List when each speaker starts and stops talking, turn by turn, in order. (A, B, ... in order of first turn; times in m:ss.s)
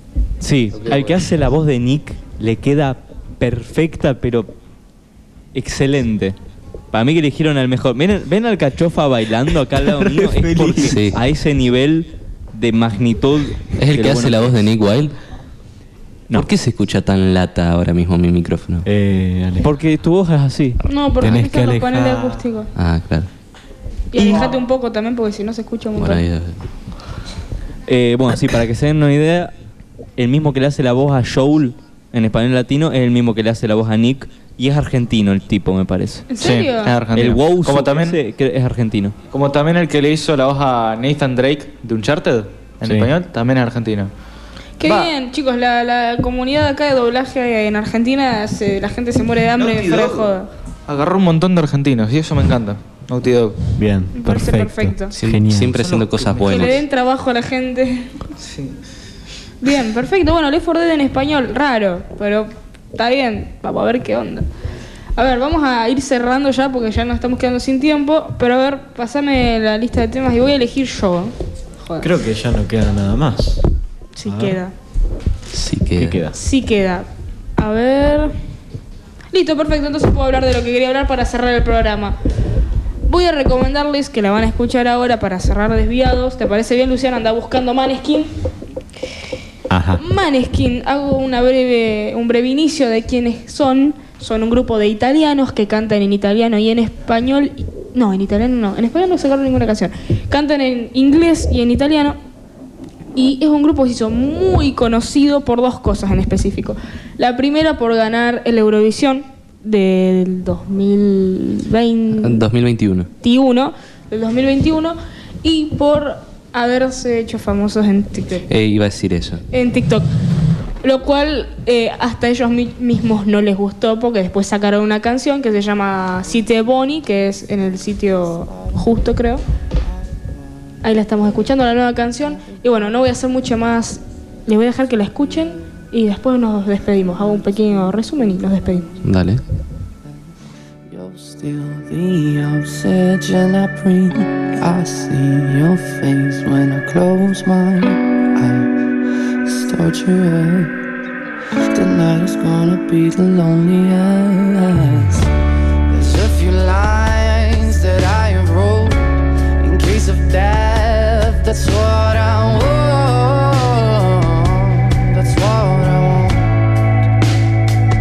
0:00.4-0:04.5 A
0:00.8-0:01.2 B
0:05.5-0:06.3 A
0:06.9-0:14.5 A
0:09.8-0:11.0 C
0:10.8-0:11.2 D
0:13.8-0:15.2 D
0:16.3-0:18.8 D
0:18.8-0:19.7 C
0:19.6-0:20.8 A
0:20.8-0:22.7 E
0:21.2-0:22.4 C
0:22.7-0:23.3 D
0:24.1-0:26.2 E
0:26.0-0:26.6 D
0:27.9-0:29.5 A
0:30.2-0:36.3 A
0:36.3-0:37.0 E
0:36.4-0:38.2 B
0:37.1-0:39.1 A
0:39.3-0:44.1 B
0:42.8-0:43.1 C
0:44.8-0:50.5 E
0:44.8-0:45.1 B
0:49.6-0:50.3 B
0:50.9-0:53.6 B
0:53.8-0:55.9 C
0:54.1-0:55.1 E
0:55.1-0:56.8 D
0:55.7-0:56.8 B
0:56.4-0:58.2 E
0:58.4-0:58.8 B
0:59.6-1:04.4 E
1:05.2-1:12.1 E
1:12.0-1:13.7 C
1:14.2-1:14.7 E
1:14.2-1:14.6 C
1:15.5-1:16.2 D
1:16.0-1:16.4 C
1:16.3-1:17.1 E
1:17.6-1:18.3 E
1:19.3-1:22.2 E
1:23.1-1:28.3 E
1:29.7-1:30.0 C
1:30.0-1:42.2 E
1:43.1-1:52.4 E
1:52.2-1:53.1 D
1:53.2-1:58.5 E
1:58.5-1:59.4 D
1:59.5-2:00.1 E
2:00.8-2:09.4 E
2:10.8-2:18.9 E
2:19.0-2:19.4 D
2:20.9-2:28.8 F
2:29.4-2:30.8 F
2:31.7-2:35.3 F
2:35.9-2:46.6 F